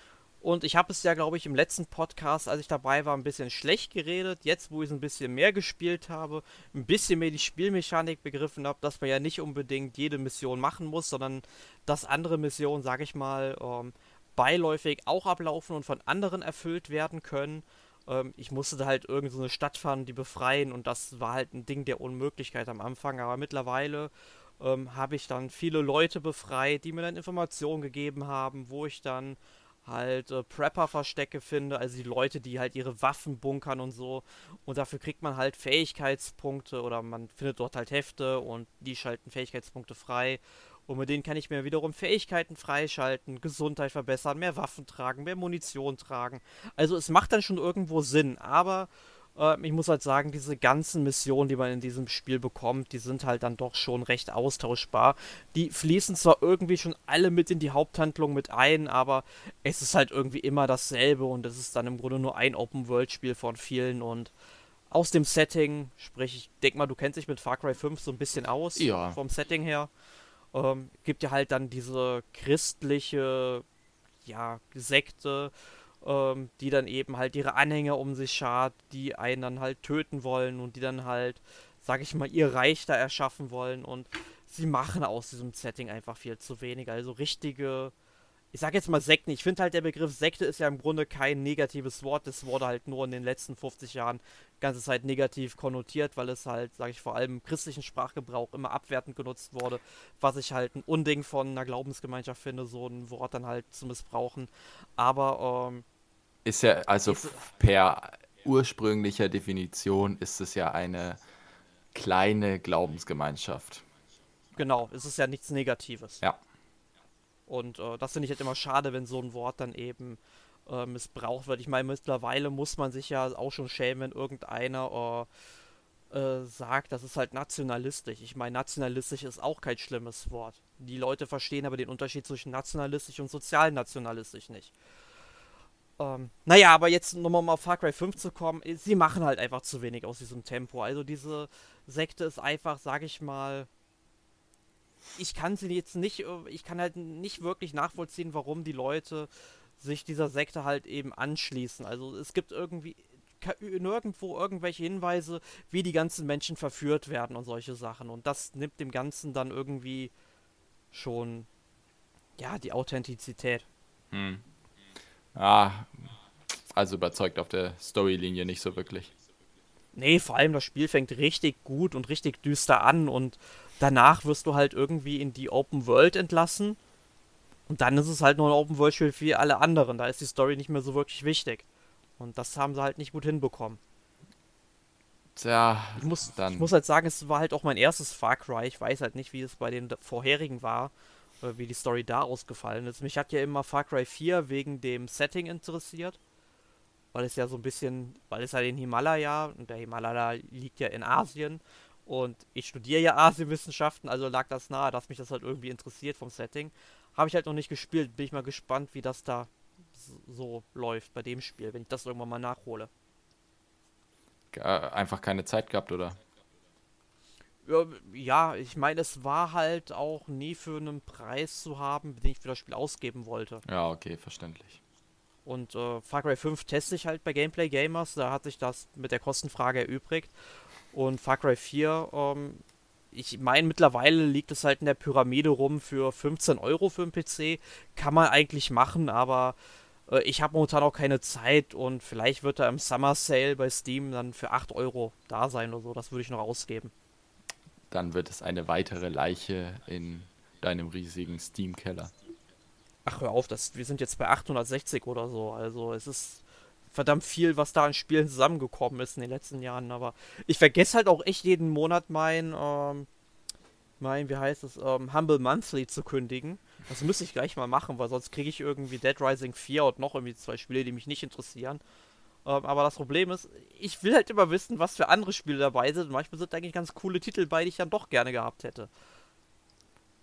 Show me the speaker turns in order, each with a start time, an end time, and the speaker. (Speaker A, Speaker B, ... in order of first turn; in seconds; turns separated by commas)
Speaker A: 0.4-64.3, Speaker A: 64.9-69.9, Speaker B: 68.8-69.2, Speaker A: 70.5-73.7, Speaker A: 74.2-87.9, Speaker A: 88.5-105.8, Speaker B: 106.5-111.2, Speaker A: 107.1-107.4, Speaker B: 111.9-113.8, Speaker A: 114.6-116.2, Speaker A: 117.5-125.3, Speaker A: 126.1-134.7, Speaker A: 136.0-143.7, Speaker A: 145.2-160.1, Speaker A: 160.9-161.5, Speaker A: 162.4-163.7, Speaker B: 164.1-164.4, Speaker B: 165.3-166.1, Speaker B: 166.7-169.1, Speaker A: 169.9-176.8, Speaker A: 177.7-181.7, Speaker A: 182.2-183.8, Speaker B: 185.4-186.7, Speaker A: 186.0-196.2, Speaker A: 197.1-212.9, Speaker B: 214.5-216.2, Speaker A: 217.7-223.6, Speaker B: 223.7-224.8, Speaker A: 225.5-230.3, Speaker A: 230.9-239.6, Speaker A: 240.1-246.9, Speaker B: 247.9-252.1, Speaker A: 253.1-263.1, Speaker A: 264.0-271.8, Speaker A: 272.4-278.9